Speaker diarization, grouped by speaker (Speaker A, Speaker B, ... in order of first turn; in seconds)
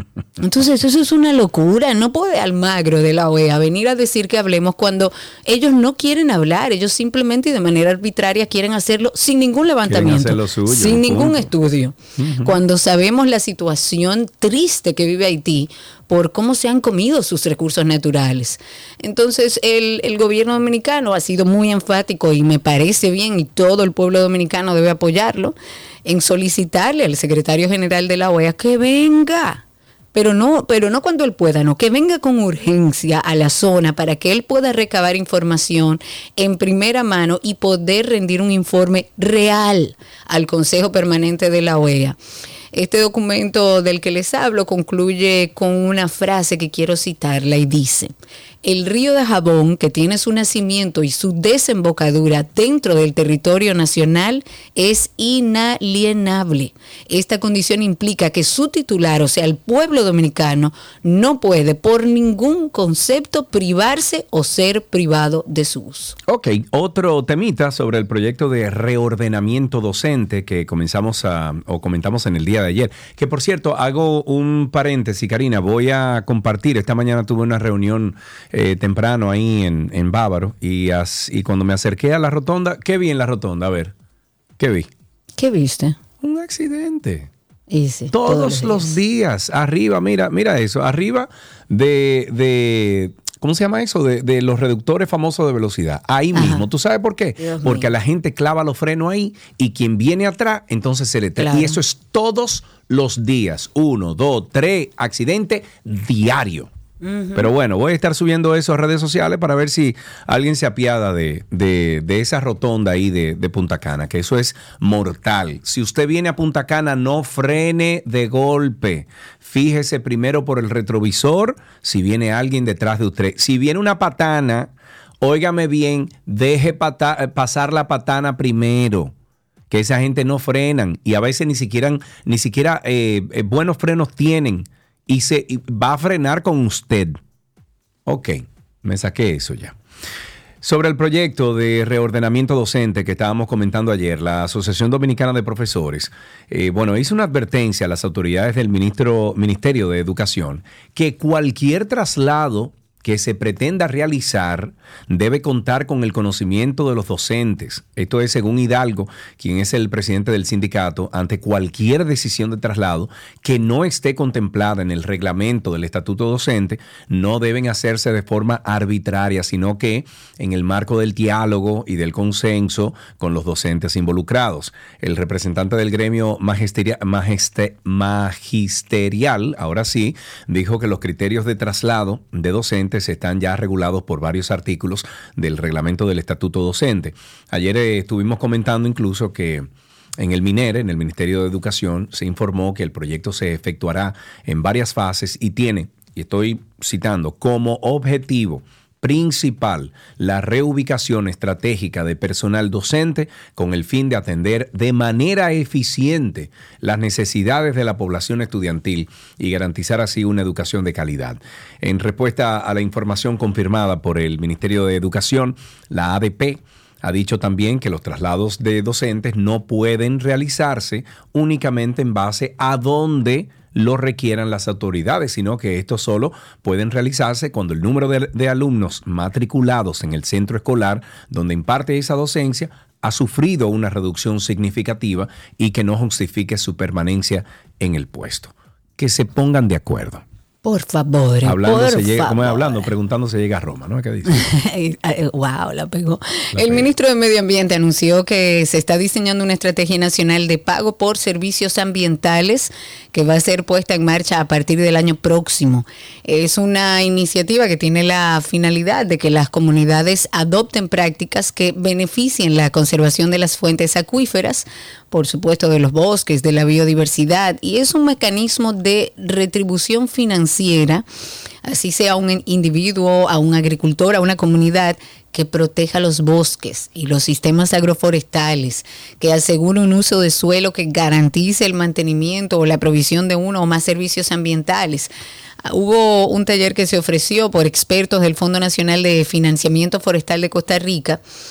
Speaker A: 0.4-29.6, 30.1-42.2, 42.7-48.1, 48.6-66.2, 85.4-86.0, 87.7-89.0, 96.3-96.6, 97.4-97.9, 101.4-101.8, 107.0-107.5, 240.6-242.8, 244.3-271.1, 271.6-285.1, 285.6-291.2
Speaker B: 9.9-11.5, 12.2-12.6, 66.3-83.9, 84.6-84.9, 86.2-87.3, 88.1-106.7, 107.3-124.7, 125.2-129.1, 129.7-137.2, 138.1-139.8, 140.6-240.2, 241.4-244.5, 246.5-246.9